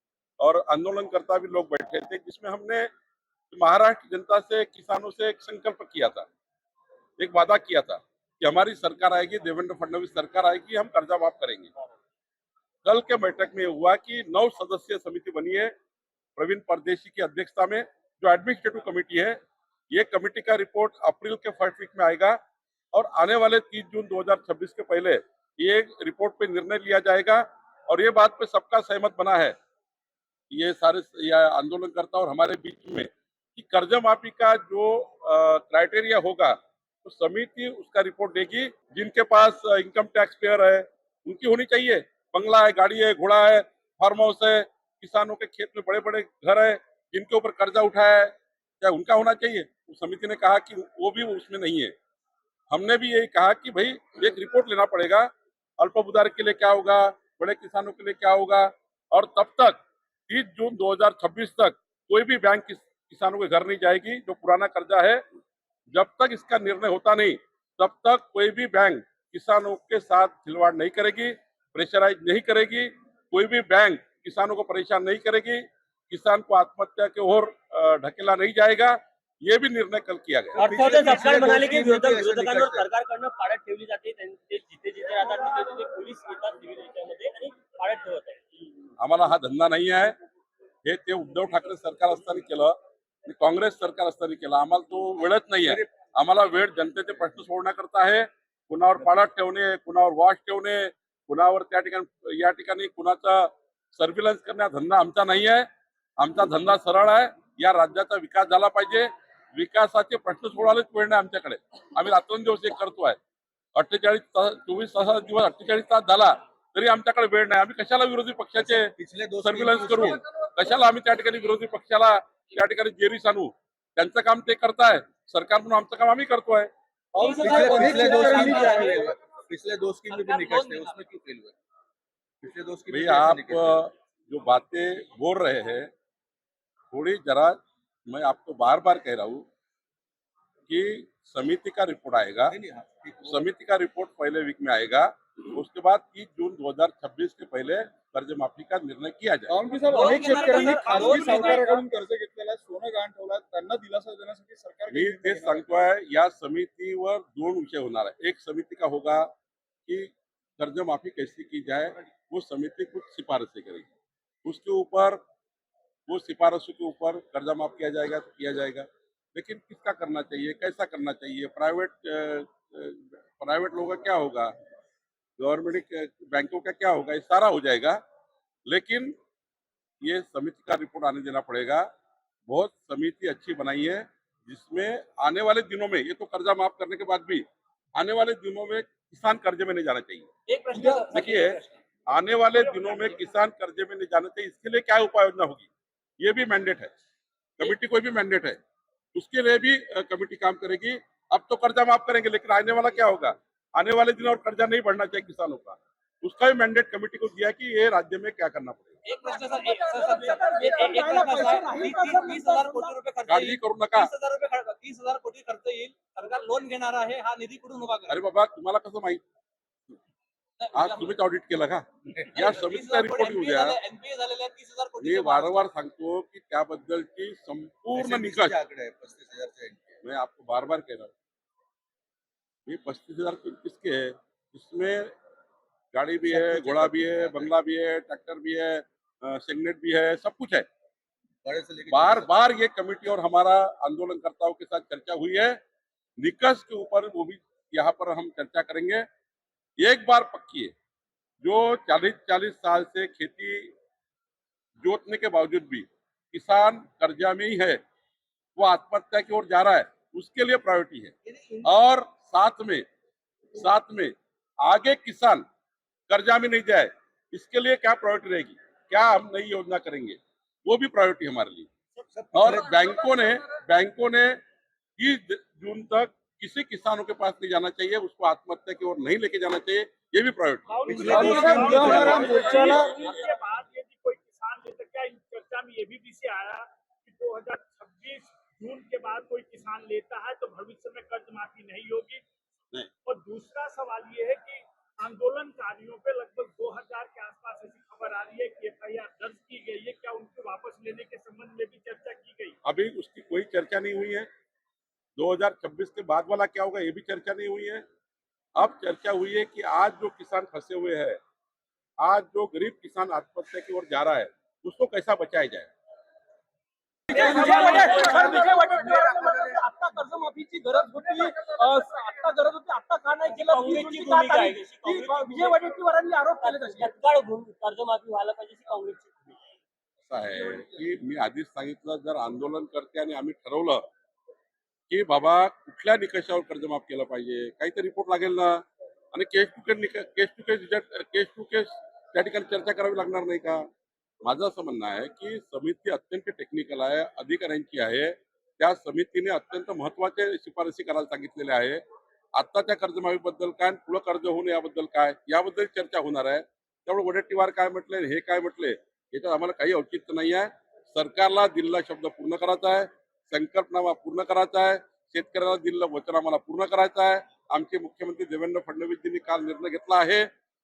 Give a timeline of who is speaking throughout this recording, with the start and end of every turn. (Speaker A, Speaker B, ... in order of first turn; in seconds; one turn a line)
Speaker A: 0.4-2.9
Speaker A: 3.5-6.2
Speaker A: 7.2-11.7
Speaker A: 12.8-15.7
Speaker A: 16.4-19.4
Speaker A: 19.9-22.4
Speaker A: 22.9-29.5
Speaker A: 30.5-51.9
Speaker A: 52.7-65.2
Speaker A: 65.9-80.6
Speaker B: 80.5-82.9
Speaker C: 80.6-88.4
Speaker A: 89.0-90.1
Speaker A: 90.8-92.7
Speaker A: 93.2-105.7
Speaker A: 106.2-113.2
Speaker A: 113.7-118.9
Speaker B: 118.6-120.2
Speaker A: 119.4-126.7
Speaker D: 127.1-129.1
Speaker C: 127.2-129.1
Speaker B: 127.3-131.5
Speaker C: 130.1-131.0
Speaker B: 132.4-133.8
Speaker A: 132.9-135.9
Speaker A: 136.9-139.4
Speaker A: 140.7-142.6
Speaker B: 142.5-143.5
Speaker A: 143.3-149.6
Speaker D: 149.5-155.7
Speaker E: 149.9-151.7
Speaker C: 149.9-151.8
Speaker F: 149.9-151.7
Speaker A: 154.9-159.3
Speaker A: 159.8-163.9
Speaker A: 164.4-165.2
Speaker A: 166.1-174.5
Speaker A: 175.4-178.0
Speaker A: 178.7-179.1
Speaker A: 180.0-181.9
Speaker A: 182.5-187.4
Speaker A: 188.0-195.7
Speaker C: 190.5-191.7
Speaker E: 192.5-193.3
Speaker A: 196.2-196.9
Speaker A: 197.6-198.6
Speaker A: 199.1-208.9
Speaker F: 209.0-218.2
Speaker G: 209.3-212.9
Speaker C: 209.6-212.3
Speaker A: 213.3-214.1
Speaker A: 218.1-219.2
Speaker F: 220.6-221.1
Speaker A: 220.7-223.8
Speaker F: 222.3-225.7
Speaker A: 225.0-228.6
Speaker B: 227.9-229.9
Speaker A: 230.0-231.1
Speaker A: 232.7-235.1
Speaker A: 235.9-240.7
Speaker B: 236.2-237.5
Speaker B: 241.4-242.3
Speaker A: 241.9-245.6
Speaker A: 246.2-249.0
Speaker A: 249.8-250.7
Speaker A: 251.4-253.7
Speaker A: 254.8-257.8
Speaker A: 258.6-262.8
Speaker B: 261.3-261.7
Speaker A: 263.5-265.4
Speaker A: 266.1-271.7
Speaker B: 272.1-272.8
Speaker A: 272.3-274.4
Speaker A: 275.0-282.3
Speaker E: 280.7-292.2
Speaker B: 280.9-282.8
Speaker D: 281.0-282.9
Speaker E: 293.1-302.6
Speaker A: 302.6-304.3
Speaker A: 305.2-307.8
Speaker A: 308.6-311.2
Speaker A: 312.0-315.7
Speaker G: 317.1-326.9
Speaker C: 317.1-319.2
Speaker C: 323.2-325.7
Speaker C: 326.4-329.4
Speaker A: 330.0-333.8
Speaker A: 334.9-343.6
Speaker A: 344.2-351.8
Speaker A: 352.3-370.3